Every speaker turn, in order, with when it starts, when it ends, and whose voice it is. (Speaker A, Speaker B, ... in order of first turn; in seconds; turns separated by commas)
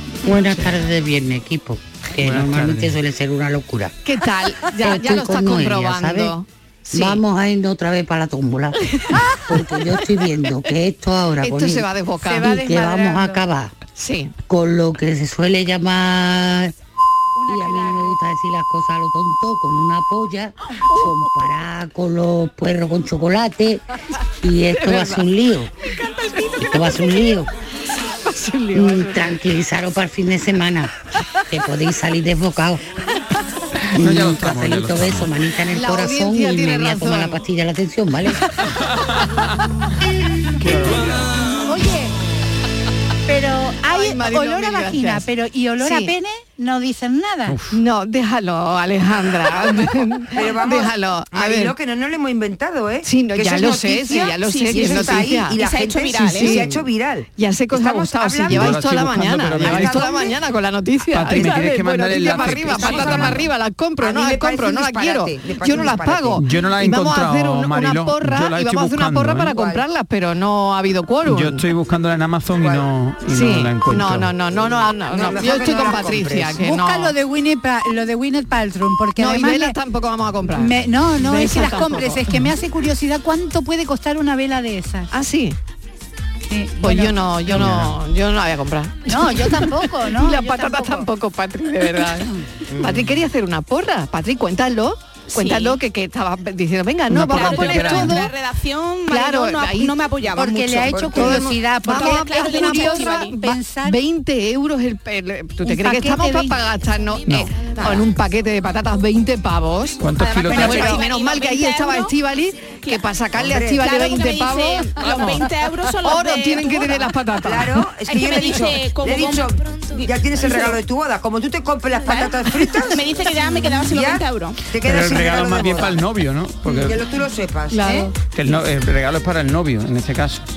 Speaker A: 0.2-4.0, Speaker B: 2.2-3.0, Speaker C: 4.0-7.2, Speaker A: 4.7-6.3, Speaker A: 6.9-11.9, Speaker C: 11.4-12.6, Speaker D: 12.2-13.4, Speaker A: 12.4-13.8, Speaker C: 13.9-14.3, Speaker A: 14.5-16.7, Speaker D: 17.4-18.1, Speaker A: 17.5-23.8, Speaker A: 24.4-25.7, Speaker C: 24.7-25.3, Speaker C: 26.3-26.5, Speaker A: 26.6-27.5, Speaker C: 28.2-29.3, Speaker A: 28.7-30.9, Speaker A: 31.5-32.8, Speaker A: 33.9-38.5, Speaker B: 34.0-35.3, Speaker C: 35.7-37.4, Speaker B: 38.8-39.4, Speaker B: 40.6-41.5, Speaker D: 41.6-42.1, Speaker D: 43.3-47.6, Speaker C: 43.9-45.3, Speaker C: 45.8-46.1, Speaker B: 47.5-47.8, Speaker C: 47.7-51.8, Speaker E: 50.3-60.4, Speaker C: 53.0-55.6, Speaker F: 54.1-56.6, Speaker C: 56.3-71.7, Speaker B: 58.5-60.1, Speaker B: 61.1-63.4, Speaker E: 62.3-66.4, Speaker B: 66.4-69.6, Speaker E: 69.5-69.8, Speaker B: 71.2-74.3, Speaker E: 72.5-72.9, Speaker C: 73.3-77.1, Speaker E: 74.5-76.6, Speaker D: 76.6-79.8, Speaker C: 79.2-82.5, Speaker D: 80.5-85.1, Speaker C: 85.1-85.6, Speaker D: 86.5-87.7, Speaker C: 86.8-98.3, Speaker B: 87.5-88.0, Speaker D: 89.1-91.1, Speaker E: 92.7-93.2, Speaker F: 95.3-95.8, Speaker B: 97.1-98.3, Speaker F: 97.3-103.4, Speaker C: 99.1-100.0, Speaker D: 100.4-104.0, Speaker C: 100.7-115.4, Speaker E: 100.9-101.7, Speaker D: 105.6-106.6, Speaker B: 110.0-111.0, Speaker F: 110.2-112.2, Speaker F: 112.8-117.2, Speaker E: 113.3-113.9, Speaker C: 116.0-117.8, Speaker E: 117.5-126.0, Speaker F: 118.1-120.8, Speaker F: 122.0-124.6, Speaker B: 124.8-126.9, Speaker E: 126.7-128.1, Speaker C: 127.7-128.2, Speaker B: 128.3-130.4